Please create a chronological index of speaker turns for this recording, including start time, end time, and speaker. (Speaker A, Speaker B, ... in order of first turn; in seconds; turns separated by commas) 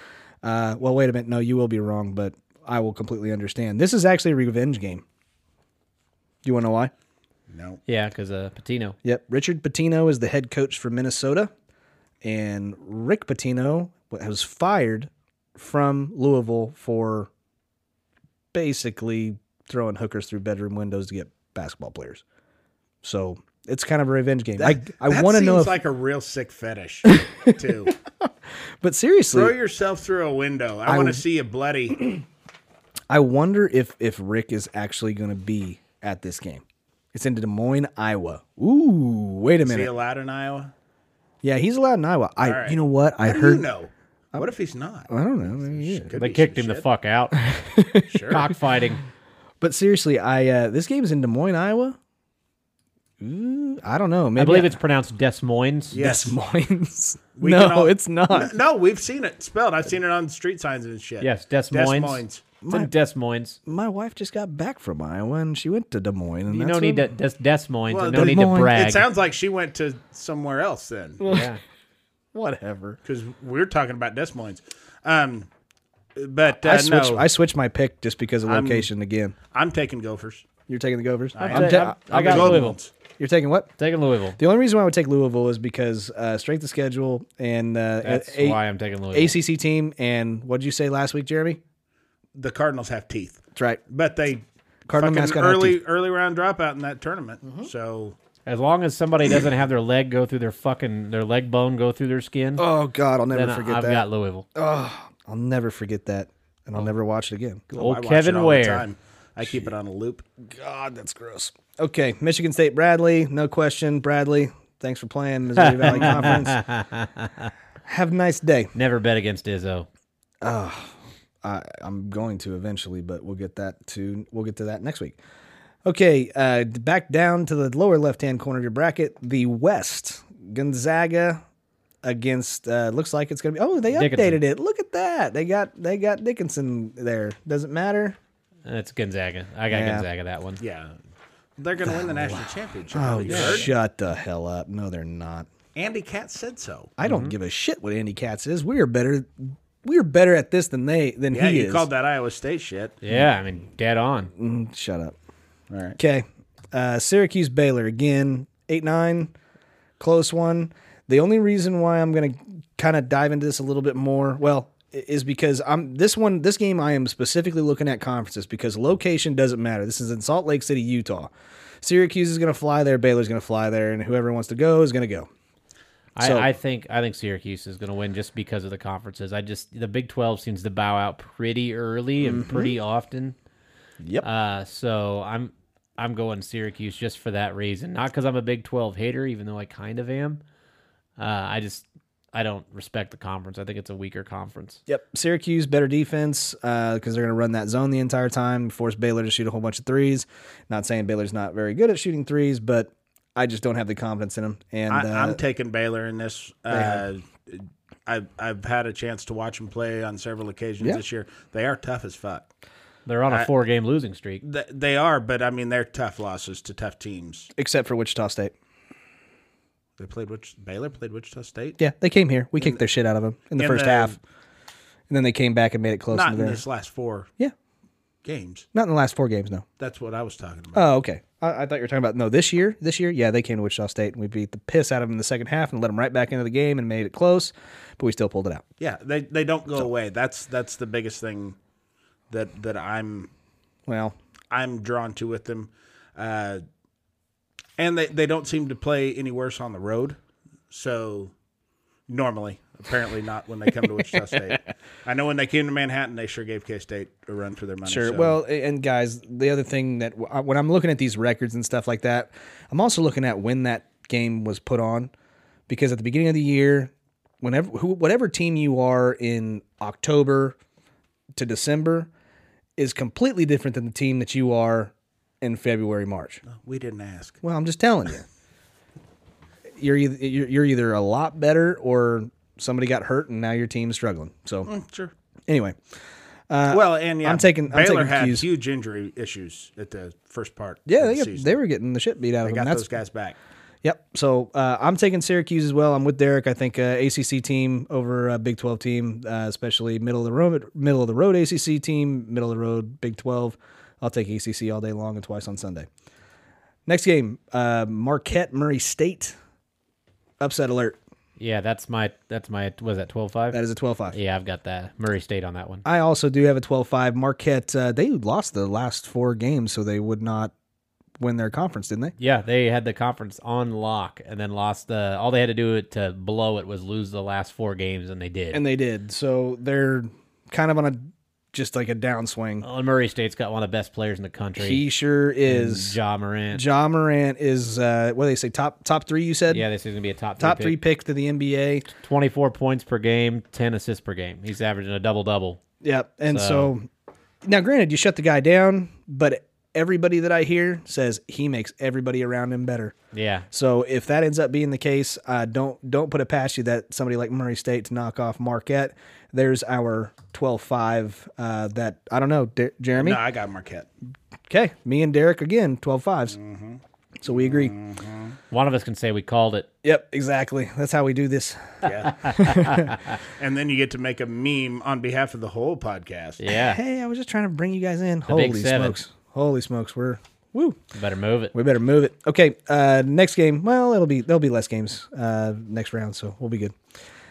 Speaker A: 0.4-5.0, Speaker A: 6.4-6.9, Speaker B: 7.5-7.8, Speaker C: 7.9-9.0, Speaker A: 9.0-11.5, Speaker A: 12.2-17.3, Speaker A: 18.5-22.2, Speaker A: 23.0-25.8, Speaker B: 24.6-27.9, Speaker A: 27.1-27.6, Speaker A: 28.8-29.6, Speaker B: 29.3-32.2, Speaker A: 30.9-31.2, Speaker A: 33.1-36.6, Speaker A: 37.1-39.9, Speaker B: 39.6-40.7, Speaker A: 41.4-43.6, Speaker B: 42.4-46.9, Speaker A: 45.1-46.1, Speaker C: 46.1-47.4, Speaker A: 47.5-48.3, Speaker B: 48.1-48.5, Speaker C: 48.3-49.0, Speaker A: 49.6-52.0, Speaker A: 53.2-54.8, Speaker C: 54.4-56.0, Speaker B: 55.9-56.4, Speaker A: 56.0-58.5, Speaker B: 57.4-62.5, Speaker C: 61.2-63.6, Speaker A: 62.6-62.9, Speaker A: 63.7-67.1, Speaker C: 66.5-69.1, Speaker B: 67.9-71.3, Speaker A: 68.1-68.8, Speaker A: 71.2-71.5, Speaker C: 71.2-71.6, Speaker A: 72.3-73.0, Speaker B: 73.0-75.5, Speaker B: 76.2-77.3, Speaker A: 76.5-79.3, Speaker B: 78.5-78.9, Speaker B: 79.5-80.5, Speaker A: 80.7-83.7, Speaker B: 81.3-82.9, Speaker C: 81.4-82.8, Speaker C: 83.8-84.4, Speaker A: 84.4-88.6, Speaker C: 88.0-89.4, Speaker A: 89.1-91.6, Speaker B: 92.3-98.2, Speaker A: 93.5-93.8, Speaker A: 94.9-95.8, Speaker C: 98.5-102.7, Speaker A: 102.6-107.7, Speaker C: 103.3-104.5, Speaker B: 107.7-110.2, Speaker C: 107.7-108.9, Speaker A: 110.4-116.6, Speaker C: 115.6-117.5, Speaker A: 117.9-118.7, Speaker C: 118.8-119.9, Speaker A: 120.4-125.2, Speaker A: 125.8-131.4, Speaker A: 132.0-138.2, Speaker C: 133.9-134.4, Speaker C: 138.7-140.6, Speaker A: 139.7-140.1, Speaker B: 140.6-141.0, Speaker B: 141.6-143.7, Speaker A: 142.9-145.5, Speaker C: 143.3-143.7, Speaker B: 145.8-146.9, Speaker A: 147.0-151.9, Speaker C: 147.0-147.3, Speaker B: 151.3-153.0, Speaker C: 153.0-154.3, Speaker A: 154.4-155.2, Speaker B: 155.7-156.0, Speaker A: 156.0-159.3, Speaker A: 160.0-175.3, Speaker C: 176.2-183.3, Speaker A: 176.2-176.5, Speaker A: 182.2-182.7, Speaker C: 184.2-190.4, Speaker C: 191.2-194.8, Speaker A: 194.9-205.4, Speaker B: 204.9-212.5, Speaker A: 206.7-207.1, Speaker C: 213.1-214.4, Speaker B: 214.4-217.5, Speaker A: 217.6-218.5, Speaker B: 220.0-221.8, Speaker A: 221.8-224.2, Speaker B: 223.6-224.2, Speaker A: 225.1-226.6, Speaker B: 226.1-227.3, Speaker B: 228.2-228.7, Speaker A: 228.7-229.7, Speaker B: 229.8-230.8, Speaker A: 230.7-238.6, Speaker B: 238.8-241.6, Speaker B: 242.3-243.3, Speaker A: 243.9-244.2, Speaker B: 244.5-246.6, Speaker B: 247.8-250.2, Speaker B: 250.7-251.3, Speaker B: 252.1-258.4, Speaker A: 257.9-265.1, Speaker A: 265.7-270.6, Speaker A: 271.4-272.1, Speaker A: 272.8-276.4, Speaker B: 276.5-277.4, Speaker A: 277.4-278.2, Speaker A: 279.8-284.7, Speaker B: 284.7-285.1, Speaker A: 285.5-285.8, Speaker A: 286.5-288.5, Speaker B: 286.7-291.5, Speaker A: 290.9-292.9, Speaker B: 292.4-293.4, Speaker A: 293.8-305.9, Speaker A: 306.9-309.4, Speaker A: 310.4-311.0, Speaker C: 311.4-313.6, Speaker A: 313.5-314.2, Speaker C: 314.1-315.8, Speaker A: 315.9-320.5, Speaker A: 321.2-322.1, Speaker C: 322.2-328.6, Speaker A: 328.5-332.6, Speaker C: 332.6-334.8, Speaker A: 334.6-336.0, Speaker C: 335.5-336.6, Speaker A: 336.5-339.6, Speaker C: 339.5-340.8, Speaker A: 340.4-341.9, Speaker C: 341.9-345.6, Speaker A: 345.8-346.9, Speaker C: 346.3-346.7, Speaker A: 347.4-352.9, Speaker C: 353.1-353.5, Speaker A: 353.5-363.2, Speaker B: 363.0-363.9, Speaker A: 364.5-366.4, Speaker B: 366.3-368.4, Speaker A: 367.2-367.7, Speaker C: 368.5-369.7, Speaker A: 369.8-373.0, Speaker B: 371.8-372.2, Speaker C: 372.2-373.0, Speaker B: 373.4-376.4, Speaker C: 376.4-376.8, Speaker A: 376.5-380.8, Speaker C: 378.3-379.0, Speaker C: 380.9-381.5, Speaker A: 381.5-386.8